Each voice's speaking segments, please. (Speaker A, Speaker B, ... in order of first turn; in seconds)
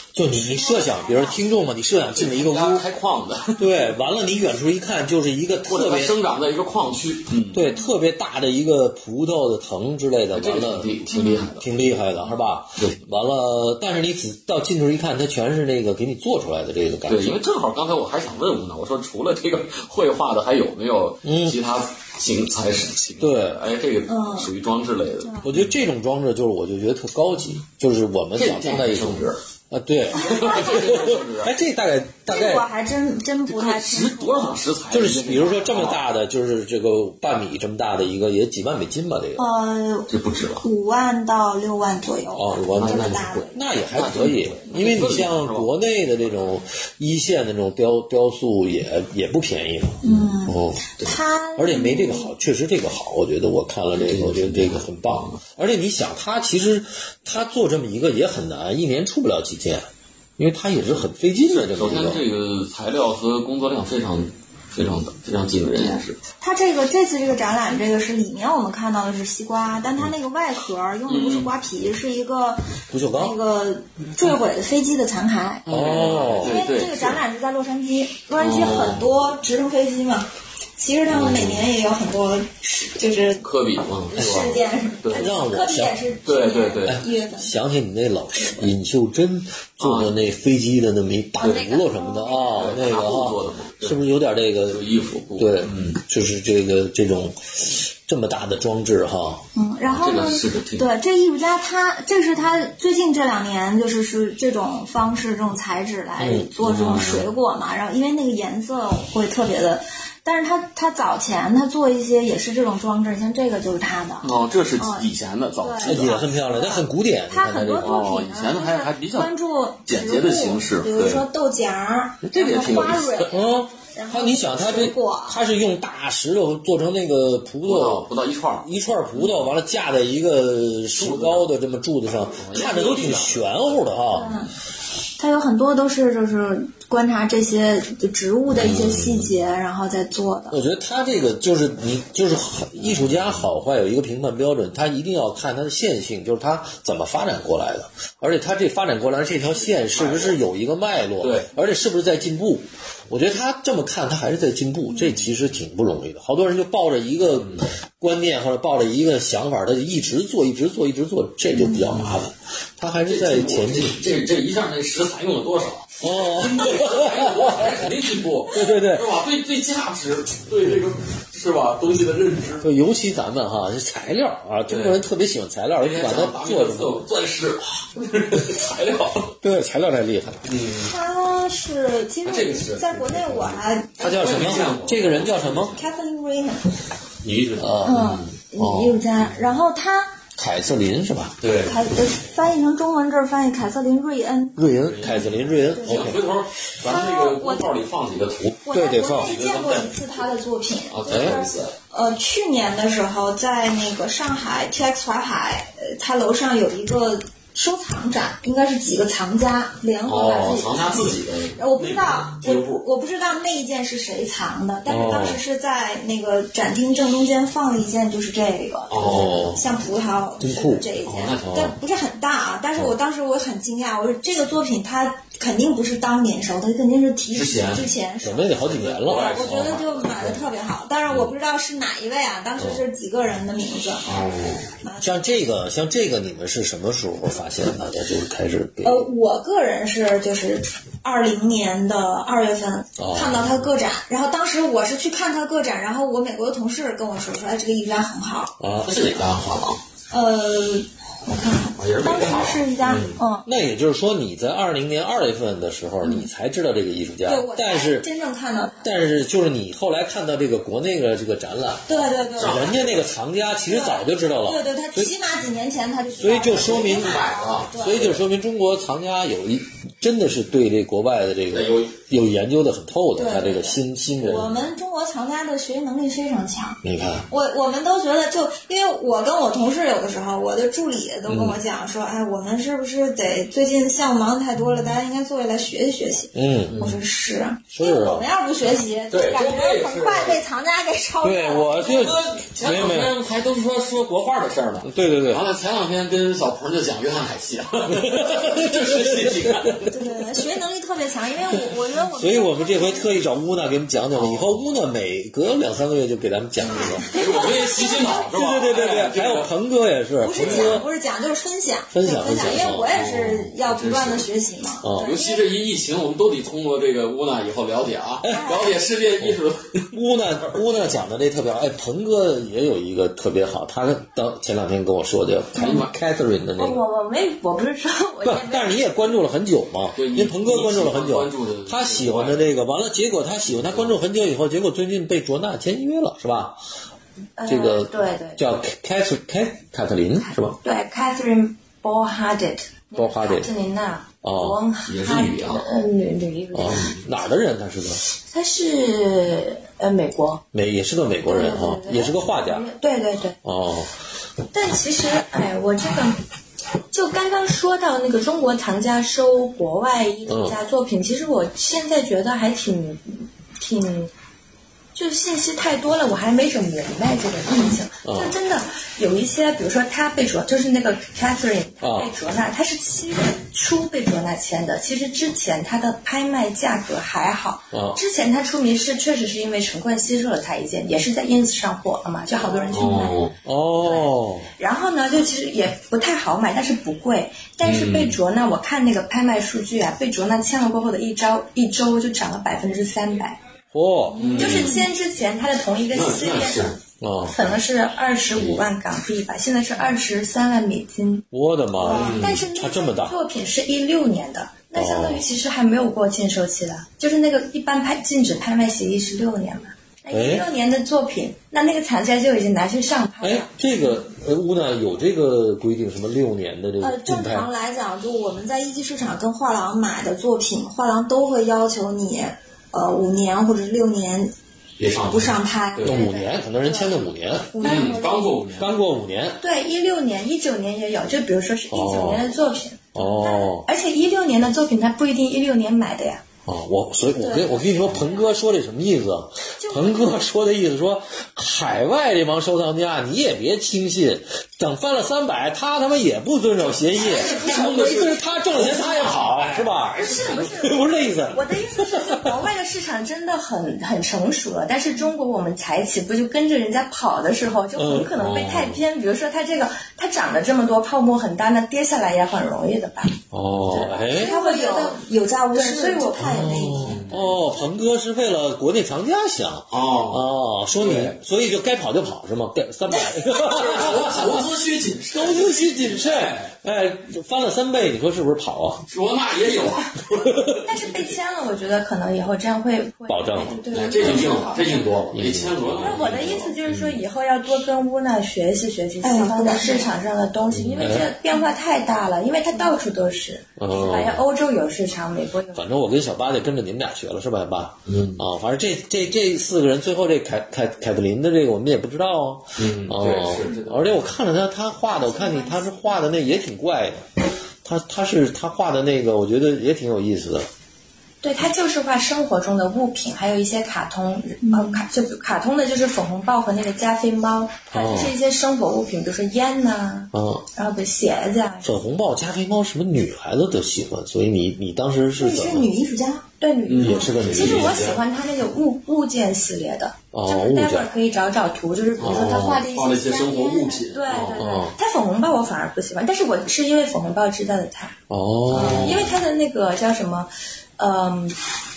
Speaker A: 0.1-2.9, 3.6-6.2, 7.5-10.9, 11.6-17.4, 21.2-21.6, 23.2-23.6, 25.4-32.7, 34.9-39.5, 42.3-51.0, 51.6-62.2, 72.9-73.4, 75.7-76.6, 85.1-86.0, 86.8-94.8, 95.4-99.4, 106.2-106.5, 115.8-118.0, 123.3-128.1, 128.6-134.4, 138.6-139.3, 140.5-164.0, 166.0-167.8, 168.5-169.1, 172.6-177.0, 179.4-180.5, 184.0-185.8, 187.6-189.0, 190.4-191.4, 194.6-196.2, 198.7-199.3, 201.1-201.5, 214.9-215.4, 219.0-219.6, 220.4-220.9, 221.5-221.7, 228.2-229.8, 235.0-239.1, 243.0-243.5, 248.6-249.2, 253.4-258.1, 258.8-265.1, 266.2-274.7, 276.8-277.3, 281.3-281.6, 286.3-286.8, 287.7-288.3, 291.2-293.2, 294.8-295.5, 297.9-299.9, 302.1-307.1, 308.2-310.9, 311.9-312.9, 314.8-315.2, 319.9-326.8, 328.2-336.6, 337.4-340.6, 342.9-343.5, 344.2-344.6, 346.5-348.0, 350.5-352.7, 353.4-354.0, 360.3-360.6, 368.1-368.4, 371.8-372.1, 377.7-378.0, 383.4-384.5, 393.7-394.7, 397.0-397.4, 401.3-403.2, 404.7-405.3, 410.1-410.5, 413.2-417.5, 425.8-427.9, 428.6-429.4, 431.7-432.3, 432.9-433.7, 436.5-452.4, 457.8-458.8, 463.3-464.3, 466.2-474.5, 475.1-478.9, 480.1-480.6, 483.1-483.6, 485.1-486.2, 486.7-487.0, 490.8-491.1, 493.6-494.2, 495.5-507.1, 507.6-510.5, 517.7-518.1, 520.1-520.5, 521.6-525.7, 526.8-527.9, 530.1-530.9, 534.2-534.8, 538.1-539.1
Speaker B: 0.3-1.6, 11.1-11.5, 24.1-24.5, 30.2-31.1, 32.3-34.6, 39.4-40.1, 40.6-43.6, 50.0-52.3, 66.4-83.5, 84.1-87.5, 91.4-92.7, 99.5-125.4, 134.1-134.5, 135.2-140.6, 161.6-161.8, 180.8-184.1, 185.8-186.8, 187.8-190.2, 191.6-194.6, 195.7-196.2, 196.8-197.7, 198.7-234.1, 234.8-235.2, 238.8-248.5, 250.1-253.5, 256.0-256.3, 257.2-258.9, 261.9-262.9, 263.7-268.1, 273.1-292.2, 299.9-303.1, 307.0-308.2, 310.2-315.4, 318.3-318.8, 394.2-394.9, 401.8-402.2, 416.8-424.3, 425.0-426.0, 427.5-428.4, 437.2-437.7, 447.0-449.1, 464.1-467.1, 489.0-489.9, 525.2-526.3, 532.1-533.9
Speaker C: 2.1-3.8, 5.7-7.7, 10.3-11.7, 12.8-13.0, 17.1-25.7, 28.4-29.4, 30.1-31.6, 33.5-36.0, 40.1-40.6, 42.7-45.7, 50.0-50.4, 54.0-55.4, 61.5-66.2, 71.1-71.5, 75.7-77.2, 78.4-79.2, 81.1-81.7, 83.4-85.3, 86.2-87.0, 89.8-90.1, 91.4-91.7, 92.5-94.0, 94.7-96.0, 99.9-100.9, 106.6-107.3, 114.2-116.2, 117.8-119.3, 119.9-121.3, 122.2-123.3, 127.6-129.5, 130.9-131.5, 132.2-133.9, 149.6-150.4, 151.2-151.5, 161.8-162.2, 163.1-172.7, 174.7-175.0, 175.8-179.4, 180.4-180.9, 182.2-185.8, 187.2-188.2, 191.4-191.8, 194.8-200.2, 200.9-201.7, 210.1-212.8, 218.9-219.6, 221.0-221.7, 227.3-227.9, 228.7-230.5, 234.1-234.7, 248.8-249.8, 251.8-253.1, 262.4-263.0, 266.4-268.2, 271.5-271.9, 286.7-287.0, 289.1-290.4, 291.9-299.9, 304.1-304.7, 306.6-309.5, 310.3-310.8, 312.4-314.3, 315.0-319.9, 325.6-325.9, 330.0-332.5, 333.5-333.9, 344.9-345.8, 382.7-383.4, 387.6-388.2, 394.2-394.8, 395.9-396.8, 398.3-398.7, 401.9-402.5, 424.8-426.0, 427.6-428.8, 447.1-450.4, 463.6-463.9, 466.8-467.4, 469.7-471.2, 473.4-476.5, 478.9-481.2, 483.7-486.8, 490.5-491.0, 497.9-498.2, 502.6-504.1, 526.7-528.0, 532.0-534.4, 538.5-539.2
Speaker D: 326.6-329.2, 337.4-338.4, 340.6-347.2, 348.2-350.4, 351.2-353.4, 354.5-356.2, 356.9-364.1, 364.9-383.3, 383.8-393.4, 394.3-401.3, 401.8-413.5, 425.9-427.0, 429.4-436.2, 439.6-440.2, 447.0-447.7, 449.7-465.0, 465.5-466.5, 480.6-485.1, 485.8-495.8, 504.9-506.3, 511.2-521.7, 526.4-532.7, 533.9-538.0, 538.6-541.4